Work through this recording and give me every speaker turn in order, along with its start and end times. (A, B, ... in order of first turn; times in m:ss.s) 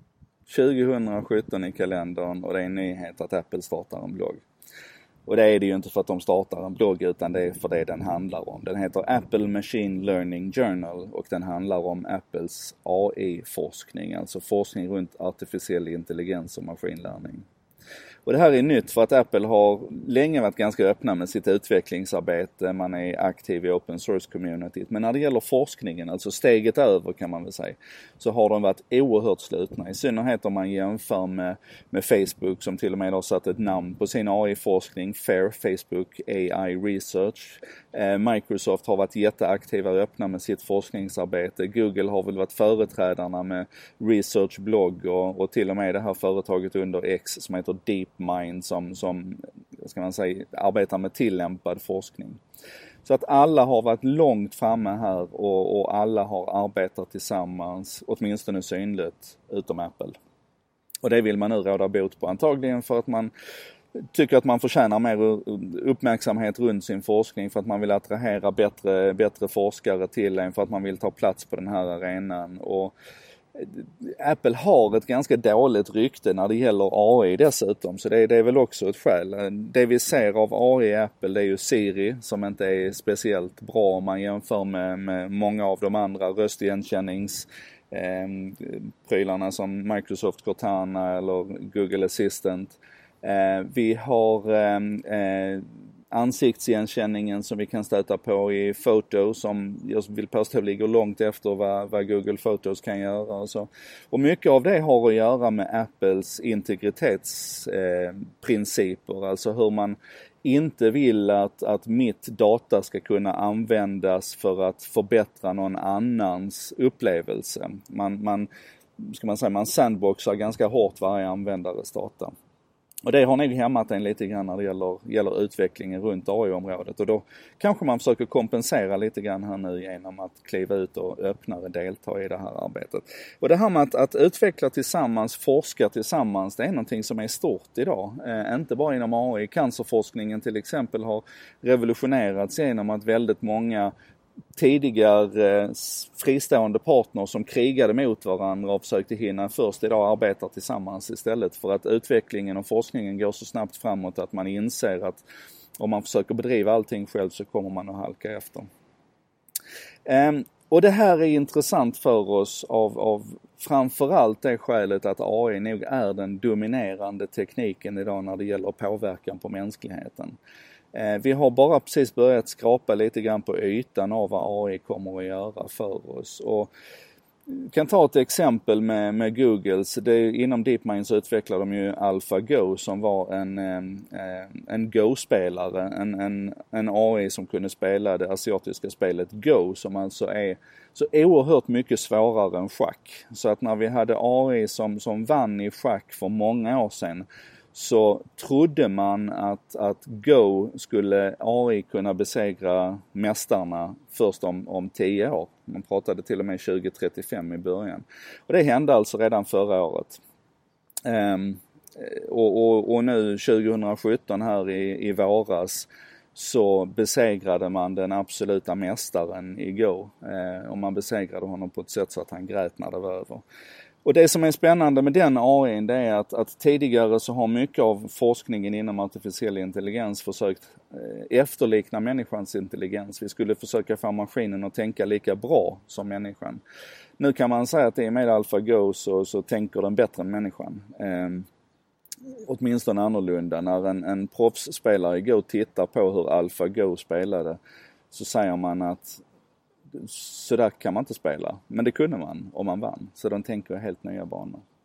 0:00.5-0:04.4 A
0:05.3-0:17.5 A
0:18.3-0:52.4 A
0:53.0-1:00.2 A
1:01.0-1:03.3 A
1:04.0-1:12.9 A
1:13.6-1:58.5 A
1:59.0-2:02.3 A
2:03.1-2:23.9 A
2:24.6-2:35.2 A
2:35.8-2:38.7 A
2:40.1-2:50.4 A
2:50.9-2:56.7 A
2:57.5-3:30.2 A
3:31.0-3:43.4 A
3:44.0-3:56.6 A
3:57.2-4:01.5 A
4:02.5-4:07.6 A
4:08.1-4:09.2 A
4:09.9-4:14.6 A